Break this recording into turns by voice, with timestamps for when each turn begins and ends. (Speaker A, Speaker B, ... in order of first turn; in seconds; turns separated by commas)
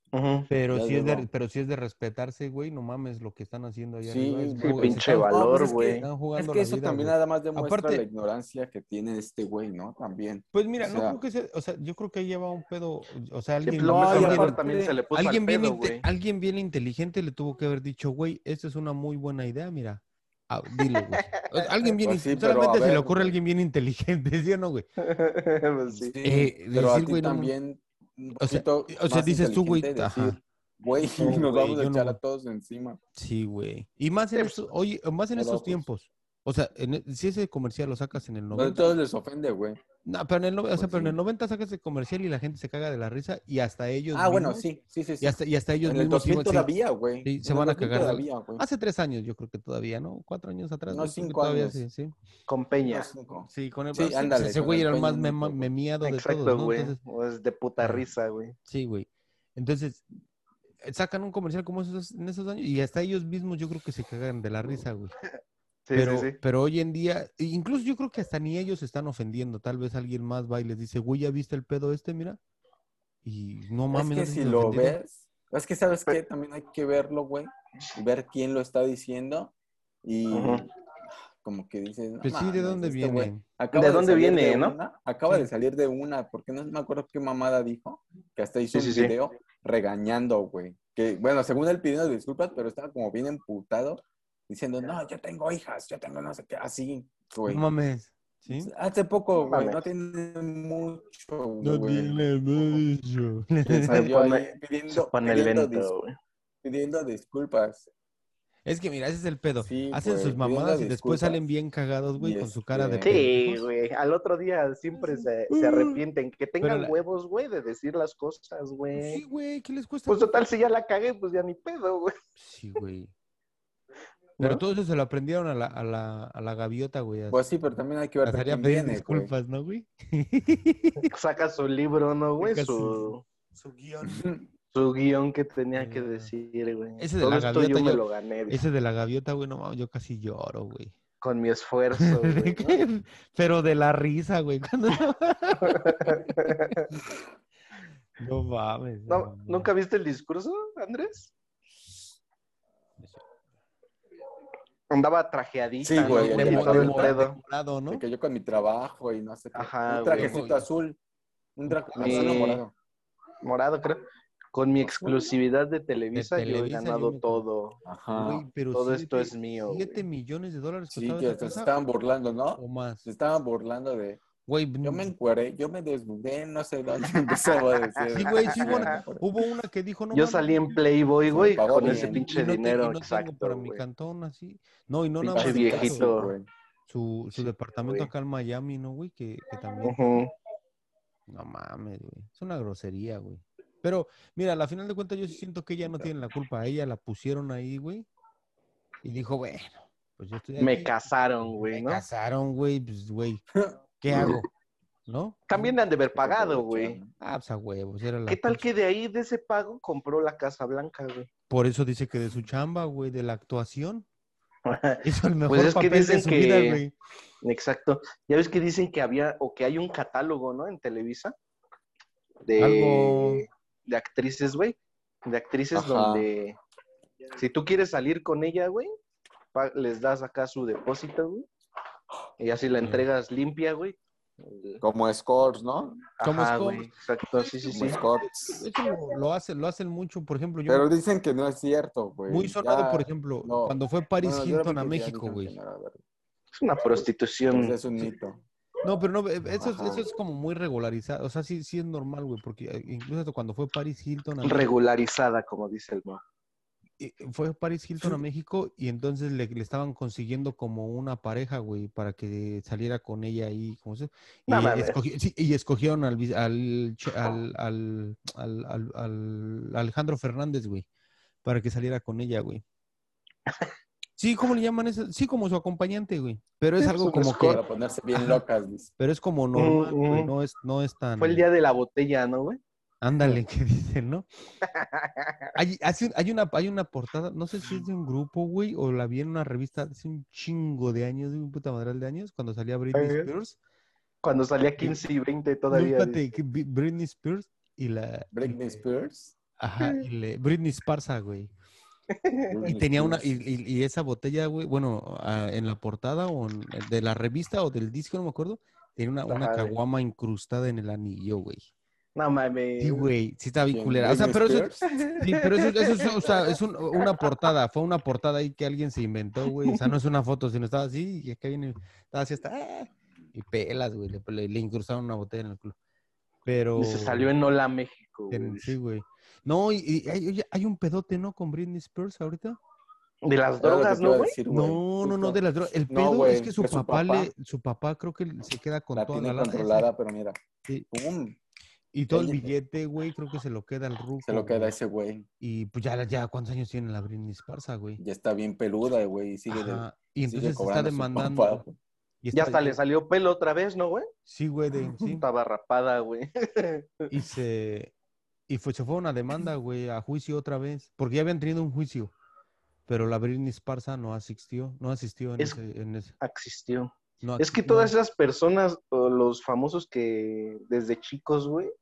Speaker A: 0.1-0.5, Speaker B: 0.5-8.0, Speaker C: 0.7-1.3, Speaker C: 4.0-11.2, Speaker A: 4.6-6.1, Speaker B: 10.5-14.6, Speaker A: 13.7-16.0, Speaker C: 13.8-15.0, Speaker B: 15.2-24.9, Speaker A: 20.8-21.9, Speaker C: 22.0-23.4, Speaker A: 25.0-26.1, Speaker C: 25.9-33.0, Speaker B: 26.2-27.5, Speaker B: 28.4-30.4, Speaker B: 31.0-32.2, Speaker B: 33.1-39.0, Speaker A: 34.4-34.7, Speaker C: 35.4-35.9, Speaker C: 38.5-39.8, Speaker B: 40.0-44.7, Speaker C: 40.8-41.2, Speaker C: 44.1-48.7, Speaker B: 45.2-46.7, Speaker B: 47.2-52.1, Speaker C: 50.9-51.8, Speaker A: 52.5-53.1, Speaker C: 52.8-55.7, Speaker B: 53.5-57.0, Speaker A: 56.0-58.5, Speaker B: 57.8-58.1, Speaker B: 58.7-60.0, Speaker B: 60.8-65.1, Speaker A: 65.9-66.4, Speaker B: 65.9-72.4, Speaker B: 73.2-75.0, Speaker C: 73.9-79.5, Speaker C: 80.0-80.7, Speaker A: 80.3-80.7, Speaker C: 81.4-97.6, Speaker B: 82.2-83.4, Speaker A: 83.7-84.8, Speaker A: 88.7-89.2, Speaker B: 97.5-98.7, Speaker C: 98.5-102.3, Speaker A: 99.4-99.9, Speaker B: 101.6-104.1, Speaker C: 103.7-105.9, Speaker A: 103.7-106.1, Speaker C: 106.6-107.9, Speaker B: 108.7-113.7, Speaker C: 109.6-111.4, Speaker C: 112.2-113.2, Speaker A: 113.0-119.2, Speaker B: 115.1-116.0, Speaker B: 116.6-117.0, Speaker B: 119.0-120.4, Speaker A: 120.1-122.2, Speaker B: 122.4-123.1, Speaker B: 124.4-127.4, Speaker C: 127.3-129.3, Speaker B: 128.2-131.1, Speaker A: 131.0-133.2, Speaker B: 132.4-134.3, Speaker C: 134.0-134.4, Speaker A: 134.7-138.6, Speaker B: 135.8-136.3, Speaker B: 137.0-141.0, Speaker A: 141.2-142.8, Speaker B: 142.0-147.0, Speaker A: 145.6-146.9, Speaker B: 148.2-149.7, Speaker A: 149.1-151.3, Speaker A: 154.9-157.4, Speaker C: 155.8-157.2, Speaker B: 156.0-158.0, Speaker C: 157.9-161.0, Speaker A: 159.5-160.4, Speaker B: 160.1-160.7, Speaker C: 161.6-162.7, Speaker B: 161.7-162.5, Speaker A: 162.0-162.6, Speaker A: 163.4-167.8, Speaker C: 164.8-165.2, Speaker B: 166.1-167.4, Speaker C: 167.8-168.4, Speaker B: 168.2-171.7, Speaker A: 168.7-170.0, Speaker C: 170.9-174.2, Speaker B: 172.6-173.1, Speaker B: 174.5-175.1, Speaker C: 174.8-179.3, Speaker A: 177.3-178.9, Speaker B: 178.1-186.1, Speaker A: 180.1-183.8, Speaker C: 181.3-182.3, Speaker C: 185.2-186.5, Speaker A: 185.4-186.3, Speaker B: 186.9-190.2, Speaker A: 187.3-188.1, Speaker A: 189.8-190.3, Speaker B: 191.3-198.1, Speaker C: 195.9-196.1, Speaker B: 199.0-203.4, Speaker A: 200.6-202.0, Speaker C: 203.5-204.4, Speaker B: 204.0-204.5, Speaker B: 205.1-205.8, Speaker A: 205.5-207.0, Speaker C: 206.2-207.1, Speaker B: 207.2-208.6, Speaker A: 208.3-211.3, Speaker B: 211.5-214.1, Speaker A: 214.7-216.8, Speaker B: 215.0-216.9, Speaker A: 217.4-221.3, Speaker A: 222.4-226.6, Speaker B: 222.6-223.4, Speaker C: 225.7-226.3, Speaker A: 227.3-228.9, Speaker A: 229.5-231.5, Speaker A: 232.4-234.8, Speaker B: 232.8-233.1, Speaker C: 234.8-236.0, Speaker A: 236.2-238.0, Speaker B: 236.2-236.9, Speaker C: 237.7-238.3, Speaker B: 237.8-240.9, Speaker C: 240.7-246.0, Speaker B: 242.3-245.6, Speaker A: 246.6-247.8, Speaker C: 247.0-248.4, Speaker B: 248.8-254.7, Speaker C: 249.6-250.1, Speaker A: 254.4-256.2, Speaker B: 257.0-270.9, Speaker A: 264.5-265.0, Speaker B: 271.4-272.6, Speaker A: 273.5-273.7, Speaker B: 274.2-277.6, Speaker A: 276.8-277.4, Speaker C: 277.1-278.9, Speaker B: 278.1-278.4, Speaker B: 279.0-281.5, Speaker A: 279.6-280.3, Speaker A: 281.2-282.6, Speaker B: 283.0-284.3, Speaker A: 284.6-285.5, Speaker B: 285.6-293.6, Speaker A: 292.9-293.3, Speaker A: 294.2-296.3, Speaker B: 295.7-298.8, Speaker C: 298.3-299.4, Speaker B: 299.6-301.5, Speaker A: 302.1-302.6, Speaker C: 302.5-303.3, Speaker B: 302.6-311.7, Speaker A: 309.3-309.8, Speaker A: 312.2-313.1, Speaker B: 312.8-325.8, Speaker C: 313.7-314.8, Speaker A: 314.9-317.5, Speaker A: 319.6-319.9, Speaker B: 326.4-327.3, Speaker A: 326.8-328.8, Speaker B: 328.3-332.6, Speaker A: 333.2-334.4, Speaker C: 333.6-337.3, Speaker B: 334.5-339.9, Speaker C: 338.9-340.4, Speaker C: 340.9-341.4, Speaker B: 341.9-344.7, Speaker C: 342.1-342.6, Speaker C: 344.2-345.3, Speaker B: 345.4-348.0, Speaker C: 348.0-351.8, Speaker B: 349.5-351.6, Speaker B: 352.2-352.8, Speaker A: 352.4-354.1, Speaker B: 354.3-355.2, Speaker A: 354.9-357.1, Speaker B: 357.1-357.9, Speaker B: 358.5-362.1, Speaker B: 362.9-366.1, Speaker A: 366.2-371.7, Speaker B: 367.2-367.9